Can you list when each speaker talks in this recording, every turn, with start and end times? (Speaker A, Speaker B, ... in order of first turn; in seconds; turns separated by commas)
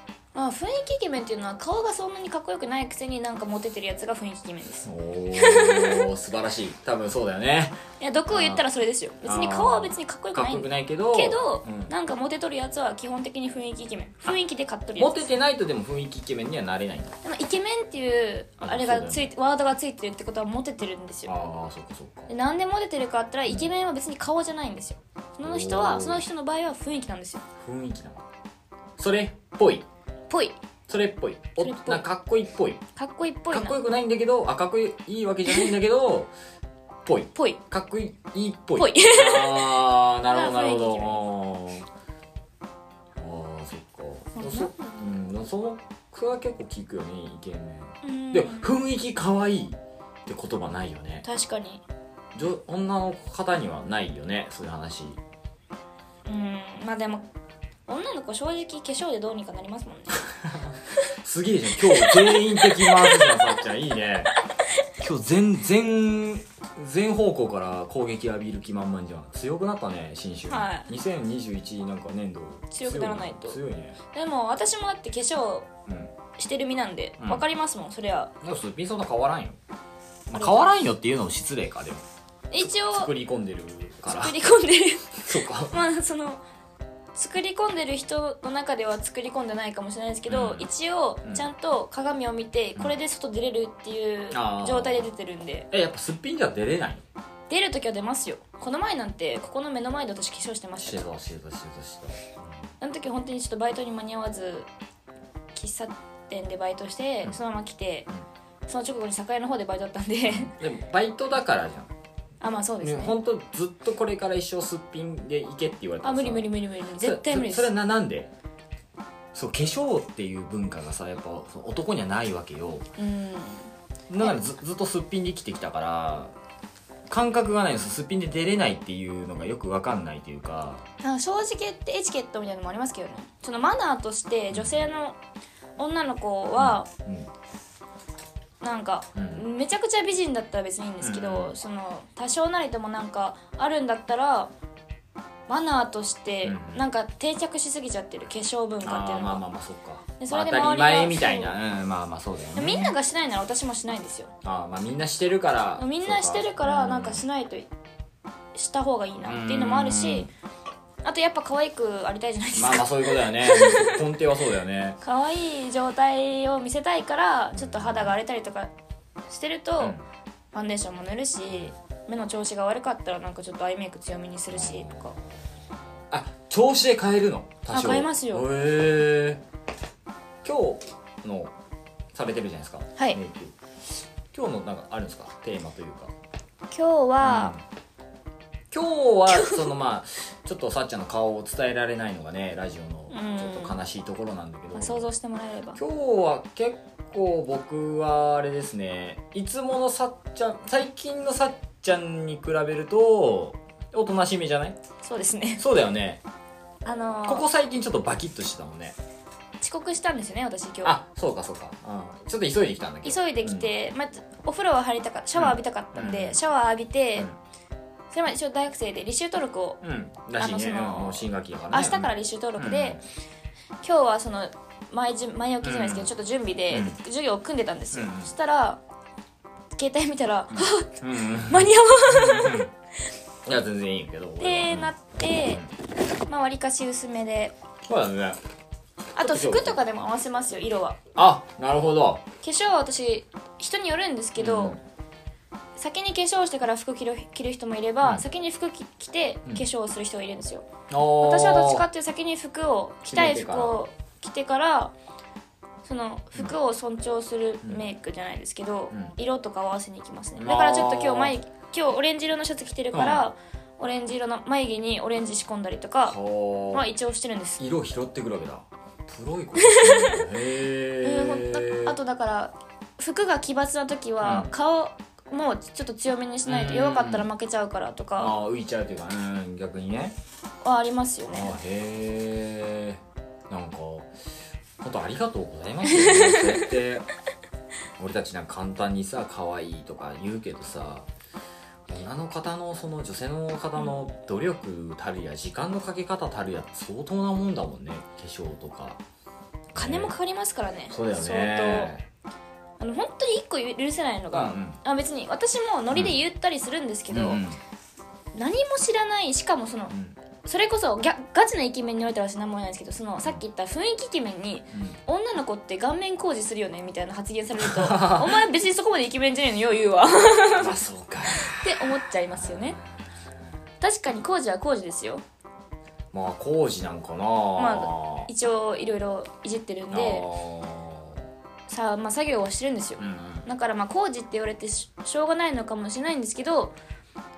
Speaker A: 0.3-6.1, Speaker B: 4.8-8.6, Speaker A: 8.0-15.3, Speaker B: 9.2-11.9, Speaker B: 15.0-17.2, Speaker A: 17.2-21.3, Speaker B: 18.6-19.3, Speaker B: 21.2-22.3, Speaker A: 22.3-27.4, Speaker B: 25.4-26.2, Speaker B: 27.6-28.2, Speaker B: 29.0-29.9, Speaker A: 30.3-30.6, Speaker B: 30.9-32.8, Speaker A: 31.6-32.0, Speaker A: 33.0-33.8, Speaker B: 33.5-36.3, Speaker A: 35.5-35.7, Speaker B: 37.0-41.9, Speaker A: 37.3-37.6, Speaker A: 38.8-41.2, Speaker B: 43.2-51.2, Speaker A: 44.4-45.1, Speaker A: 48.0-48.7, Speaker A: 51.2-51.8, Speaker B: 52.3-55.2, Speaker A: 56.2-57.2, Speaker A: 57.9-60.3, Speaker B: 60.5-64.3, Speaker A: 61.9-63.6, Speaker B: 65.0-74.0, Speaker A: 70.5-70.9, Speaker A: 72.7-75.7, Speaker B: 75.9-76.1, Speaker A: 76.4-78.3, Speaker B: 77.2-77.4, Speaker B: 78.4-79.6, Speaker B: 80.3-82.0, Speaker A: 80.3-80.7, Speaker A: 82.5-83.1, Speaker B: 82.6-84.3, Speaker A: 84.0-86.4, Speaker B: 85.2-85.8, Speaker A: 87.1-95.7, Speaker B: 90.3-90.7, Speaker B: 94.3-95.1, Speaker B: 95.7-97.0, Speaker A: 97.5-101.1, Speaker B: 100.8-102.5, Speaker A: 102.8-104.7, Speaker A: 105.5-108.1, Speaker A: 108.7-110.5, Speaker B: 110.3-111.9, Speaker A: 112.4-113.2, Speaker B: 112.8-118.3, Speaker A: 116.0-117.7, Speaker B: 119.3-122.9, Speaker A: 123.0-124.4, Speaker B: 124.1-126.3, Speaker B: 127.1-130.8, Speaker A: 131.0-135.2, Speaker B: 134.5-134.9, Speaker A: 135.8-136.9, Speaker B: 136.6-137.3, Speaker A: 138.6-144.5, Speaker B: 139.1-139.4, Speaker B: 141.0-141.5, Speaker A: 145.5-149.4, Speaker B: 146.4-146.8, Speaker B: 148.8-152.9, Speaker A: 150.2-151.5, Speaker A: 152.6-154.3, Speaker B: 154.4-157.2, Speaker A: 155.8-157.7, Speaker A: 158.5-160.3, Speaker B: 159.2-160.3, Speaker A: 161.0-164.0, Speaker B: 162.5-165.0, Speaker A: 165.0-168.7, Speaker B: 167.5-168.1, Speaker A: 169.3-170.0, Speaker A: 170.5-175.1, Speaker B: 174.5-175.4, Speaker B: 176.1-179.4, Speaker A: 177.7-178.5, Speaker B: 180.4-181.5, Speaker B: 182.1-183.5, Speaker B: 184.3-186.1, Speaker A: 186.7-187.5, Speaker B: 187.2-187.6, Speaker B: 188.7-195.1, Speaker A: 189.3-189.7, Speaker A: 193.1-193.8, Speaker A: 194.7-195.8, Speaker B: 195.8-204.8, Speaker A: 205.0-205.6, Speaker B: 205.6-206.2, Speaker A: 206.8-207.4, Speaker B: 207.2-209.0, Speaker A: 209.6-210.9, Speaker B: 210.8-213.7, Speaker A: 213.0-217.3, Speaker B: 215.3-216.4, Speaker A: 218.1-219.8, Speaker B: 219.8-223.0, Speaker A: 220.4-223.0, Speaker A: 223.8-228.8, Speaker B: 225.6-226.1, Speaker B: 226.7-227.0, Speaker B: 227.9-228.3, Speaker A: 229.7-232.7, Speaker B: 230.5-232.7, Speaker B: 233.4-234.9, Speaker A: 234.4-235.6, Speaker A: 236.3-237.5, Speaker B: 237.9-238.4, Speaker A: 239.2-241.0, Speaker B: 239.2-239.8, Speaker B: 241.2-242.2, Speaker A: 242.4-244.8, Speaker B: 244.4-244.8, Speaker A: 245.8-250.7, Speaker B: 250.9-251.8, Speaker A: 251.2-254.9, Speaker B: 253.1-253.8, Speaker A: 255.8-266.2, Speaker B: 257.6-257.9, Speaker B: 260.4-261.3, Speaker B: 262.9-263.3, Speaker B: 266.0-266.9, Speaker A: 266.7-267.6, Speaker B: 267.6-271.9, Speaker A: 269.6-270.3, Speaker A: 271.0-278.3, Speaker B: 274.2-274.5, Speaker B: 276.4-277.3, Speaker B: 278.2-280.1, Speaker A: 280.6-281.5, Speaker B: 281.3-284.1, Speaker B: 284.8-287.1, Speaker A: 285.8-286.7, Speaker B: 288.0-291.1, Speaker B: 291.9-299.0, Speaker A: 293.8-294.0, Speaker B: 299.7-300.1, Speaker A: 299.7-301.9, Speaker B: 300.9-302.1, Speaker A: 302.8-307.4, Speaker B: 304.3-304.8, Speaker B: 305.9-306.2, Speaker B: 307.1-307.6, Speaker A: 308.3-320.8, Speaker B: 309.9-310.2, Speaker B: 314.7-315.0, Speaker B: 317.6-318.4, Speaker B: 320.4-323.1, Speaker A: 321.3-322.8, Speaker A: 323.8-325.2, Speaker B: 326.1-328.3, Speaker A: 327.6-330.2, Speaker B: 329.9-331.2, Speaker A: 331.7-336.8, Speaker B: 333.0-333.5